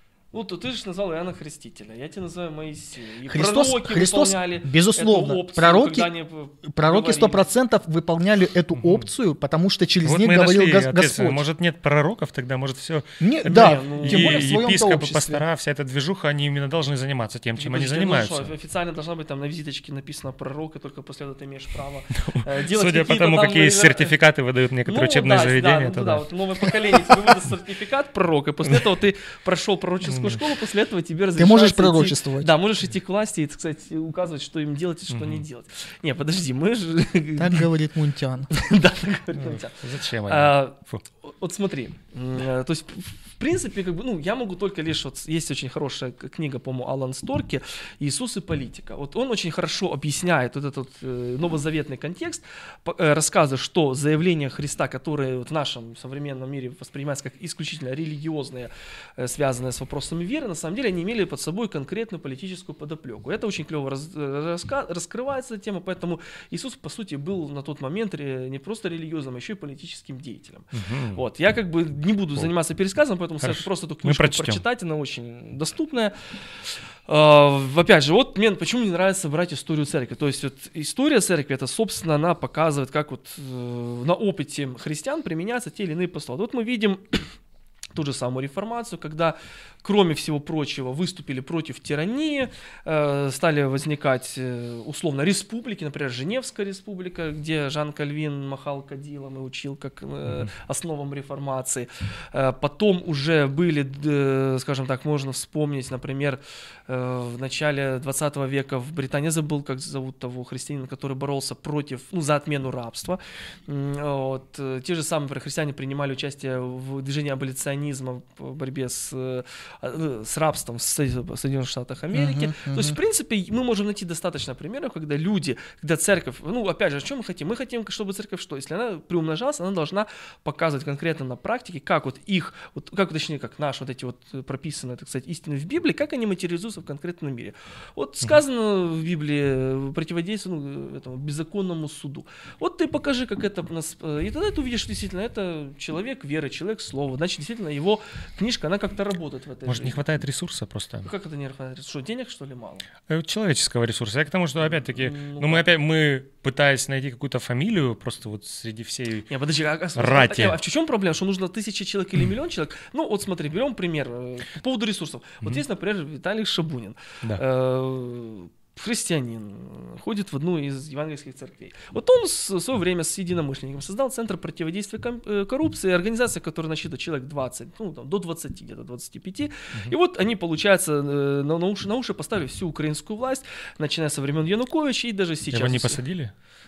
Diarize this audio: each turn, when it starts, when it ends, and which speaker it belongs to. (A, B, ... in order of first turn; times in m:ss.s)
0:00.3-0:07.4 A
0:03.3-0:06.1 B
0:06.6-0:11.4 B
0:08.7-0:09.0 C
0:10.0-0:18.5 C
0:13.2-0:15.4 B
0:13.4-0:14.5 A
0:17.6-0:24.1 A
0:22.2-0:26.2 C
0:24.8-0:37.7 A
0:26.8-0:27.2 C
0:30.0-0:30.4 C
0:31.4-0:32.5 B
0:35.1-0:35.4 C
0:37.4-0:38.5 B
0:38.5-1:16.1 A
0:39.4-0:41.0 C
1:10.7-1:11.2 C
1:13.4-1:14.6 C
1:17.0-1:27.3 A
1:27.9-2:30.0 A
2:02.1-2:03.0 B
2:29.6-2:31.1 C
2:31.0-2:32.8 A
2:33.1-2:39.3 C
2:35.0-2:35.7 A
2:39.3-3:06.0 A
2:39.9-2:40.6 C
3:05.5-3:06.3 C